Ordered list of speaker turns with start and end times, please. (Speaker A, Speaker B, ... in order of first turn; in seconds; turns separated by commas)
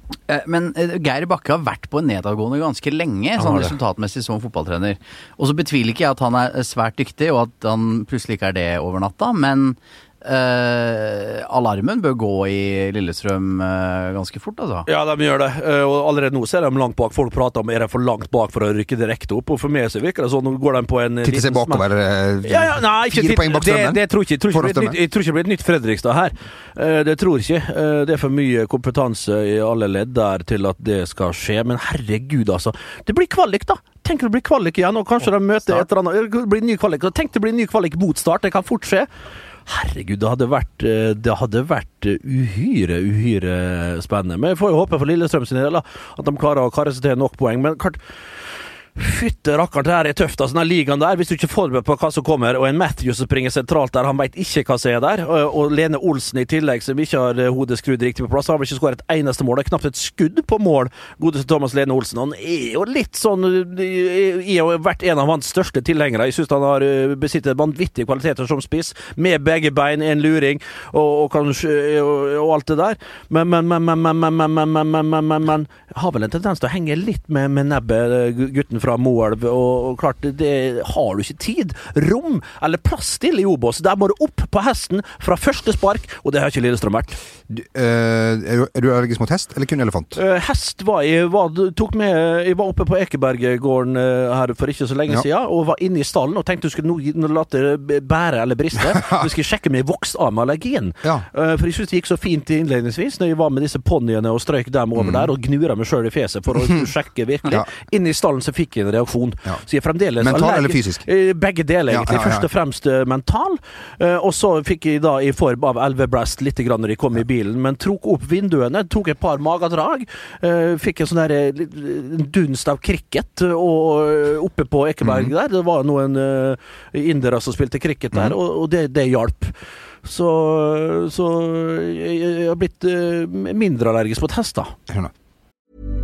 Speaker A: 0.3-14.9, Speaker B: 3.4-3.8, Speaker B: 14.9-21.9, Speaker C: 21.2-25.0, Speaker B: 22.4-39.1, Speaker C: 35.6-35.9, Speaker B: 39.7-48.0, Speaker B: 49.0-87.2, Speaker C: 87.5-90.2, Speaker B: 90.2-129.5, Speaker C: 98.8-99.3, Speaker C: 105.0-105.3, Speaker C: 110.2-111.0, Speaker C: 111.9-112.5, Speaker C: 125.0-125.3, Speaker B: 130.1-134.7